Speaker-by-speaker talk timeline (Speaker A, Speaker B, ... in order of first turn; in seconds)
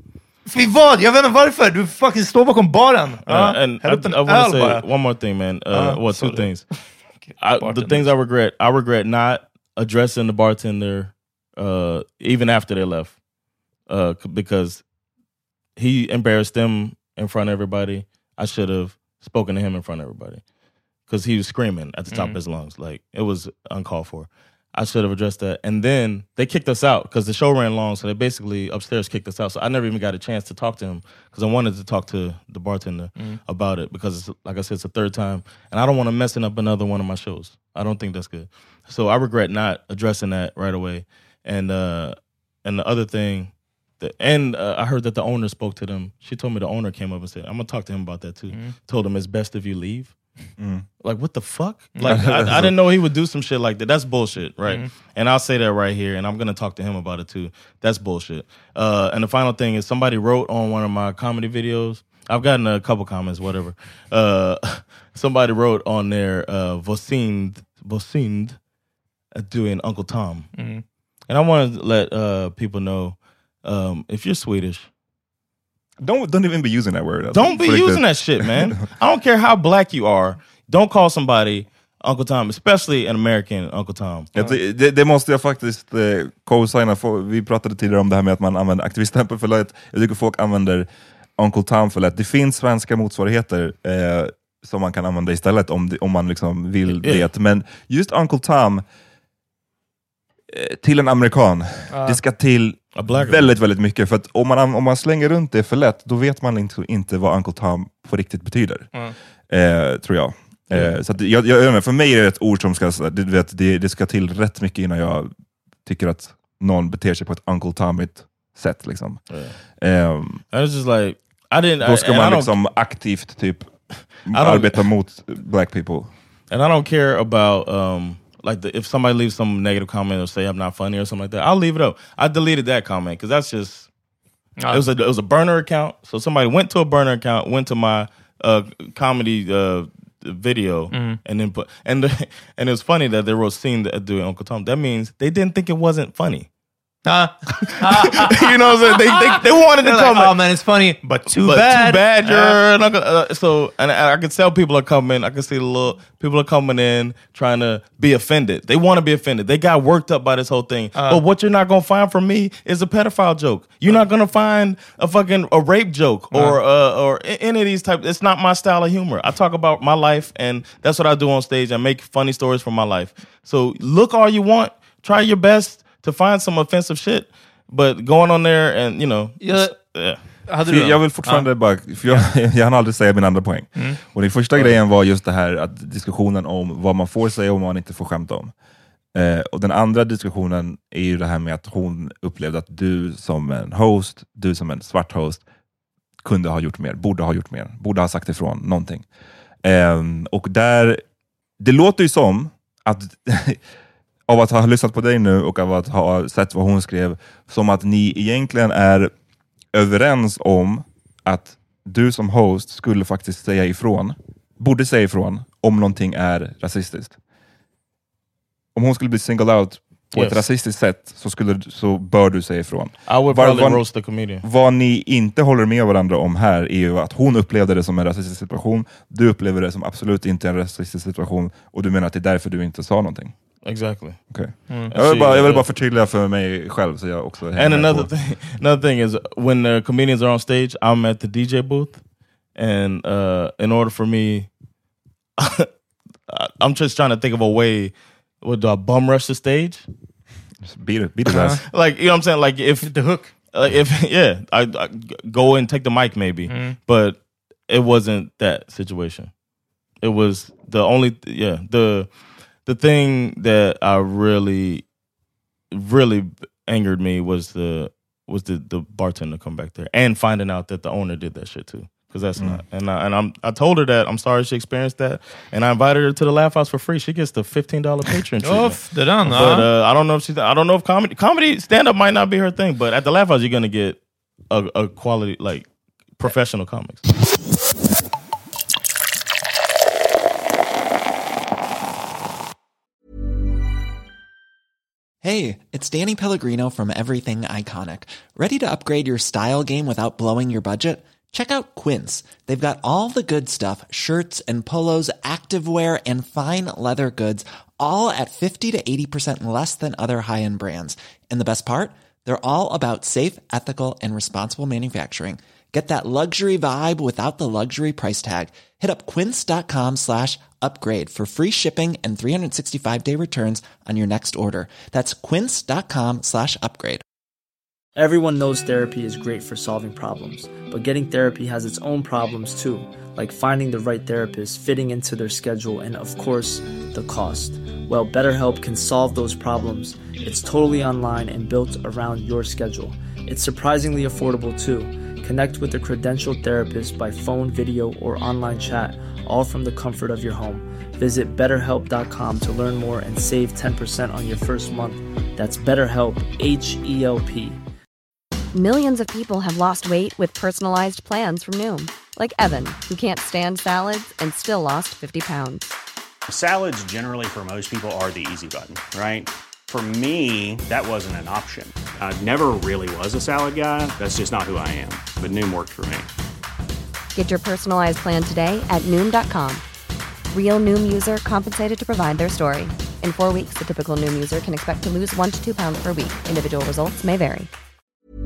Speaker A: 0.4-4.8, 5.7-8.1, 22.1-22.4, 52.0-52.5, 70.5-70.8, 101.9-102.2, 140.9-141.2, 147.0-152.6, 160.9-161.2, 166.3-166.6, 179.4-181.5, 251.3-251.6, 252.8-253.3, 256.5-256.8, 278.4-279.7
Speaker B: 3.2-6.7, 7.4-13.2, 13.9-14.8, 15.8-20.4, 21.1-50.1, 51.0-68.6, 69.3-70.5, 71.3-74.9, 77.3-84.3, 96.9-97.3, 102.9-103.6, 119.3-119.5, 120.5-122.5, 124.3-124.8, 126.5-133.9, 134.7-146.5, 147.7-150.3, 151.3-180.2, 220.1-220.4, 223.1-224.4, 233.6-234.2, 234.9-235.7, 237.6-242.0, 242.5-244.5, 245.4-245.7, 246.3-249.8, 251.7-252.9, 253.5-259.3, 260.0-262.1, 262.6-264.8, 265.7-287.1
Speaker C: 50.6-50.9, 52.1-52.7, 76.0-78.8, 84.3-90.9, 91.4-98.8, 100.5-108.9, 109.5-115.3, 115.8-120.4, 121.8-126.1, 180.7-188.5, 189.1-195.4, 196.2-199.1, 199.6-201.0, 201.6-203.6, 204.3-209.1, 209.7-217.2, 218.7-223.9, 224.4-233.3, 234.3-238.1, 250.6-251.6
Speaker D: 295.2-327.0
Speaker E: 327.9-357.6
Speaker F: 358.5-365.7, 377.1-379.6, 380.3-387.5
Speaker G: 366.3-376.1